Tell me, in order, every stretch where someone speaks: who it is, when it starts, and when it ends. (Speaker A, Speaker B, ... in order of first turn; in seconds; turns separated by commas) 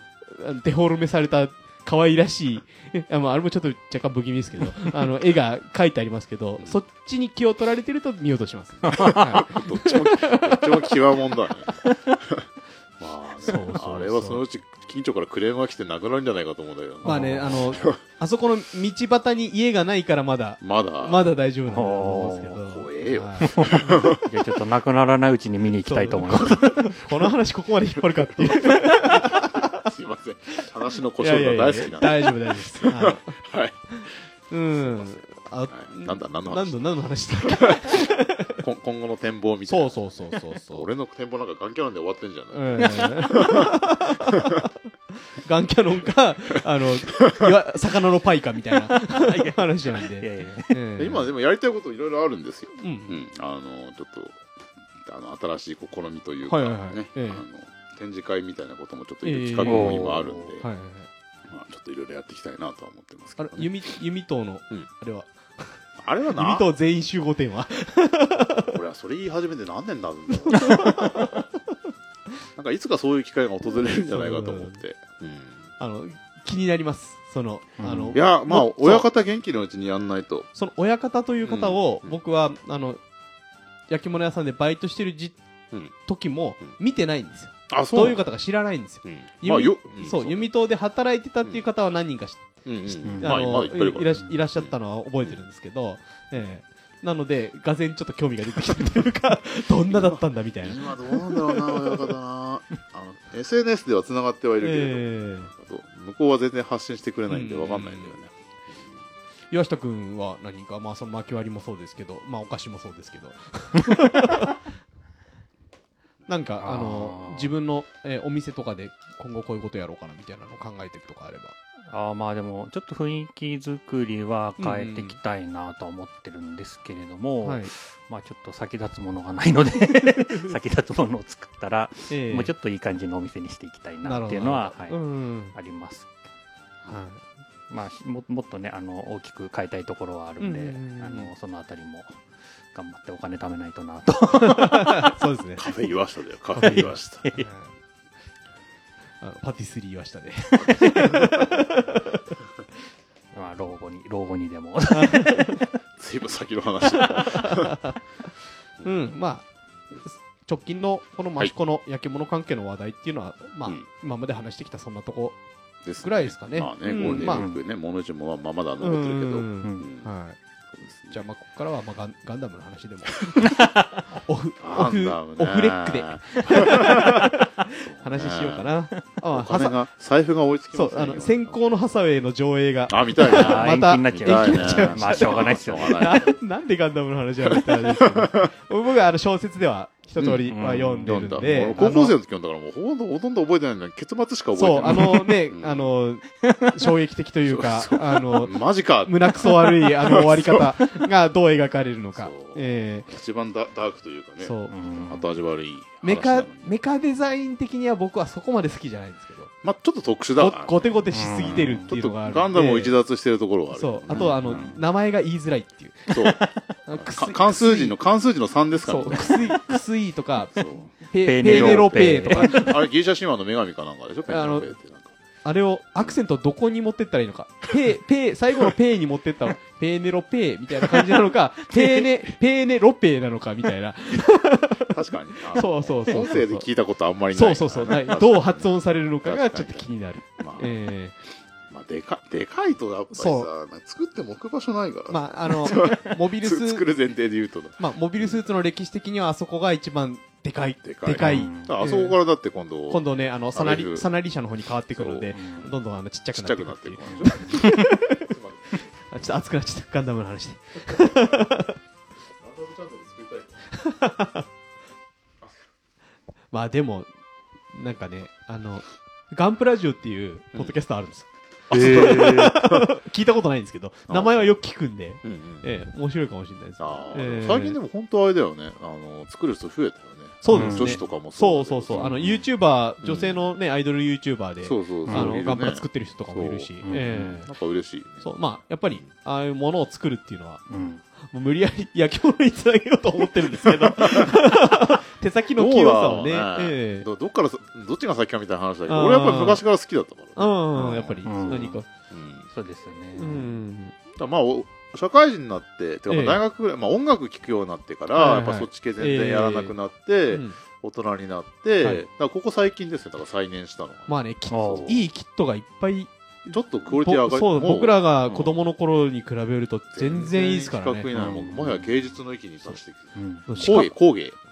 Speaker A: 0.3-10.9, Speaker B: 8.9-9.3, Speaker C: 8.9-12.4, Speaker B: 11.8-12.2, Speaker C: 13.0-18.0, Speaker A: 13.4-14.4, Speaker A: 17.0-24.1, Speaker B: 17.1-17.9, Speaker C: 20.6-21.3, Speaker B: 21.7-22.6, Speaker C: 22.6-24.2, Speaker B: 23.4-27.0, Speaker A: 25.9-29.8, Speaker C: 28.2-33.8, Speaker A: 31.2-33.3, Speaker A: 33.9-38.6, Speaker C: 34.7-36.8, Speaker C: 37.3-40.0, Speaker A: 39.7-40.9, Speaker C: 40.6-43.8, Speaker A: 42.5-44.7, Speaker C: 44.3-44.6, Speaker A: 45.3-51.3, Speaker B: 49.0-50.8, Speaker C: 51.0-54.4, Speaker A: 52.8-53.2, Speaker C: 55.0-60.6, Speaker A: 56.5-57.4, Speaker A: 59.2-60.0, Speaker B: 59.6-60.5, Speaker A: 60.6-61.1, Speaker C: 61.5-63.7, Speaker A: 63.4-65.8, Speaker C: 66.0-66.7, Speaker A: 66.3-68.7, Speaker C: 68.6-71.4, Speaker A: 70.5-71.4, Speaker C: 72.5-75.6, Speaker A: 74.0-74.8, Speaker A: 75.8-79.0, Speaker B: 77.8-78.2, Speaker C: 78.1-80.5, Speaker A: 80.5-83.0, Speaker C: 81.4-82.1, Speaker A: 83.9-85.4, Speaker A: 86.0-92.5, Speaker C: 87.7-88.2, Speaker C: 89.0-90.5, Speaker C: 92.6-95.4, Speaker B: 93.0-93.4, Speaker A: 93.2-102.1, Speaker C: 99.9-108.3, Speaker A: 104.6-105.5, Speaker A: 107.3-108.2, Speaker A: 109.5-114.6, Speaker A: 116.3-121.5, Speaker B: 116.6-117.5, Speaker B: 121.9-136.1, Speaker A: 124.6-125.2, Speaker A: 127.4-127.7, Speaker A: 132.1-132.5, Speaker A: 134.0-135.6, Speaker A: 136.9-137.2, Speaker B: 137.7-142.2, Speaker A: 140.4-141.3, Speaker B: 142.7-145.1, Speaker A: 144.3-145.7, Speaker C: 145.6-147.2, Speaker A: 146.6-147.7, Speaker B: 146.6-147.5, Speaker A: 149.2-152.4, Speaker B: 150.5-151.2, Speaker B: 153.3-155.6, Speaker A: 154.9-155.6, Speaker C: 156.0-157.7, Speaker A: 156.9-158.0, Speaker A: 158.8-159.5, Speaker A: 160.0-165.4, Speaker C: 165.8-170.1, Speaker A: 166.0-167.4, Speaker B: 166.9-167.6, Speaker A: 168.8-170.4, Speaker C: 170.7-171.2, Speaker A: 171.1-179.8, Speaker B: 173.4-173.7, Speaker C: 174.6-178.7, Speaker C: 179.3-181.8, Speaker A: 180.7-192.1, Speaker C: 182.9-186.4, Speaker B: 183.2-186.2, Speaker C: 187.4-188.5, Speaker C: 190.2-195.9, Speaker B: 190.5-191.2, Speaker A: 194.6-203.1, Speaker B: 194.9-195.3, Speaker B: 196.4-196.7, Speaker C: 197.5-200.9, Speaker C: 202.1-204.6, Speaker A: 204.4-204.7, Speaker B: 204.7-205.3, Speaker C: 205.1-206.8, Speaker A: 206.0-209.5, Speaker C: 209.6-214.8, Speaker A: 210.4-213.0, Speaker B: 211.1-211.9, Speaker A: 213.7-216.1, Speaker B: 214.1-214.7, Speaker C: 216.1-219.6, Speaker B: 216.1-216.5, Speaker A: 216.8-217.9, Speaker A: 218.9-222.7, Speaker C: 220.5-225.1, Speaker B: 221.2-222.8, Speaker A: 224.3-224.7, Speaker A: 225.4-235.0, Speaker C: 234.8-238.7, Speaker A: 235.5-236.7, Speaker A: 237.3-241.1, Speaker C: 239.2-239.9, Speaker C: 240.4-240.7, Speaker C: 241.7-248.4, Speaker A: 243.1-243.5, Speaker A: 245.1-246.9, Speaker A: 247.8-252.2, Speaker C: 250.8-254.1, Speaker B: 251.2-251.7, Speaker A: 252.9-258.3, Speaker C: 254.9-255.7, Speaker B: 255.3-255.7, Speaker C: 256.3-258.8, Speaker A: 259.0-261.8, Speaker C: 260.9-261.4, Speaker C: 262.4-263.6, Speaker A: 263.7-264.4, Speaker A: 266.5-267.1, Speaker A: 267.7-277.8, Speaker C: 271.7-272.9, Speaker B: 271.7-272.6, Speaker C: 274.1-274.5, Speaker C: 275.2-275.6, Speaker C: 276.8-282.4, Speaker A: 280.4-287.5, Speaker B: 280.5-281.0, Speaker C: 283.0-283.5, Speaker C: 284.6-288.4, Speaker B: 285.1-285.3, Speaker B: 286.8-287.3, Speaker A: 288.2-290.6, Speaker B: 290.7-291.0, Speaker A: 291.2-297.1, Speaker C: 293.6-294.4, Speaker C: 295.6-302.4, Speaker A: 298.9-299.6, Speaker A: 300.4-301.9, Speaker B: 301.2-301.8, Speaker B: 302.5-303.6, Speaker A: 303.1-304.0, Speaker C: 304.1-314.1, Speaker A: 306.1-306.4, Speaker A: 308.1-309.8, Speaker A: 310.3-310.6, Speaker A: 314.1-321.1, Speaker B: 314.5-315.0, Speaker C: 314.7-315.0, Speaker C: 316.5-318.6, Speaker C: 319.9-324.4, Speaker B: 321.1-321.9, Speaker B: 323.1-323.5, Speaker A: 323.5-323.9